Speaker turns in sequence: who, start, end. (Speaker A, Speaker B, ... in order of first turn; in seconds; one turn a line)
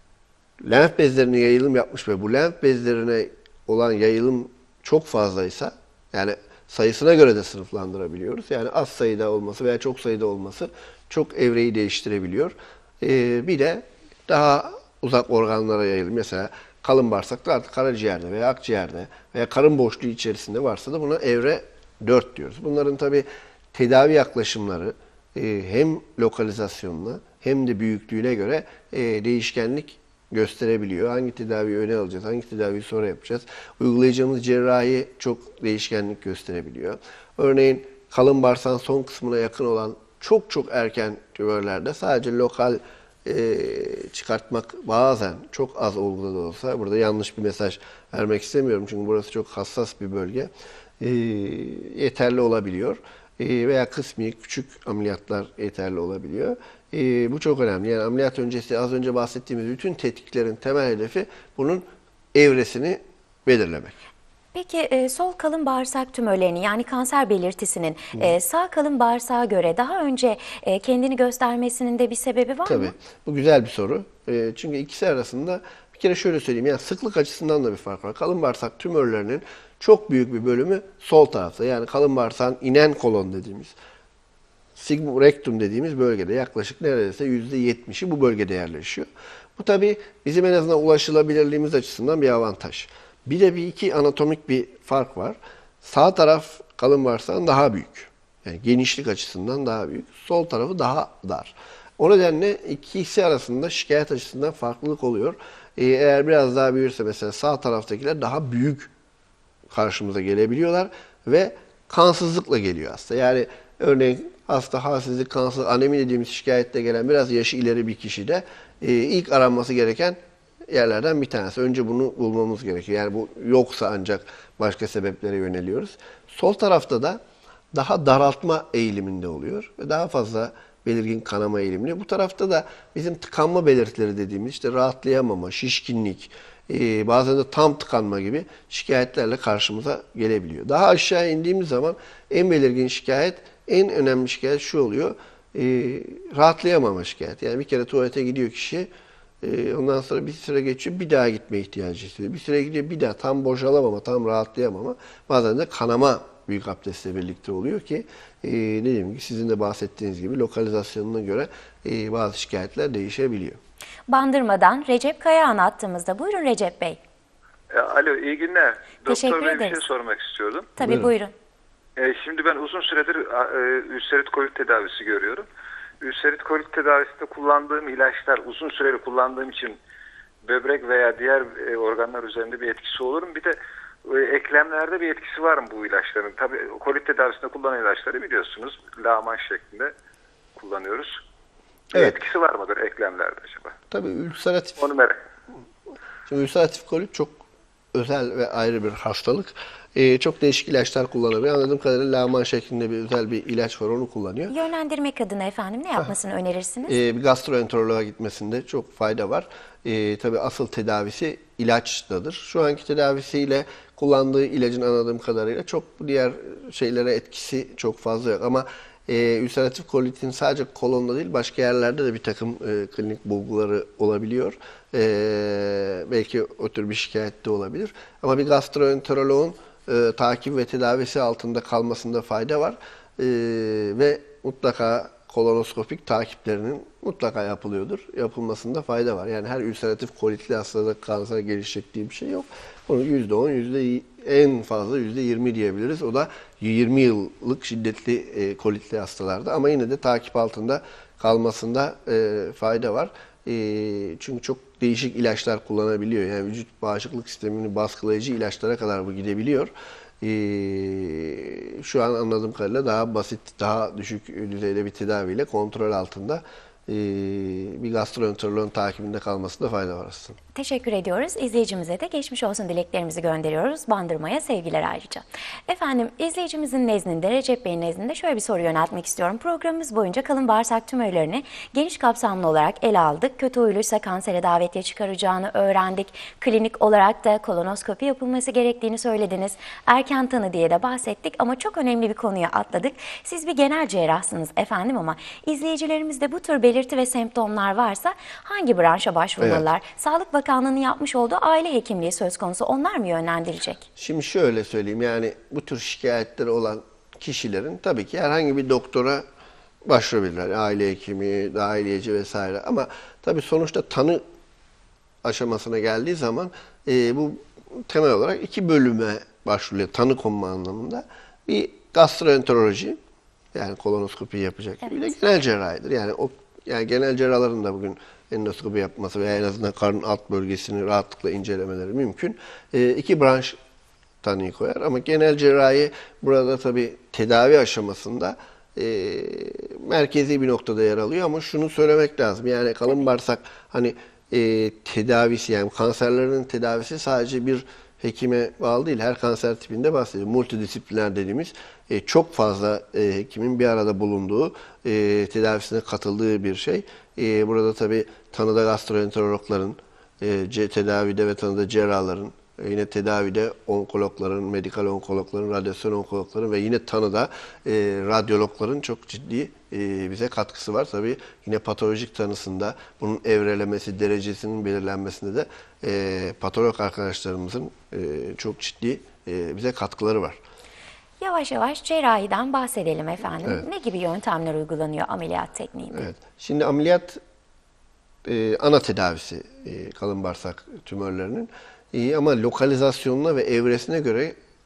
Speaker A: 0.6-63.9
Speaker B: 64.5-72.9
Speaker A: 72.7-83.7
Speaker A: 84.8-108.9
Speaker A: 109.7-127.2
Speaker A: 127.7-148.9
Speaker A: 149.4-163.6
Speaker B: 164.1-167.0
Speaker C: 167.7-170.7
Speaker B: 169.1-169.8
Speaker B: 170.8-171.3
Speaker A: 170.8-171.1
Speaker C: 172.0-175.5
Speaker C: 176.0-179.8
Speaker C: 180.4-189.9
Speaker C: 190.6-191.2
Speaker C: 191.9-193.7
Speaker A: 193.9-194.9
Speaker C: 194.8-195.2
Speaker A: 196.3-197.4
Speaker A: 197.9-204.5
Speaker B: 204.5-207.0
Speaker A: 206.8-270.4
Speaker B: 270.5-303.8
Speaker A: 299.4-299.6
Speaker A: 303.9-309.2
Speaker A: 309.8-314.2
Speaker A: 315.2-323.0
Speaker A: 323.5-333.6
Speaker A: 334.2-380.4
Speaker B: 381.2-386.1
Speaker A: 385.9-387.2
Speaker A: 388.2-394.3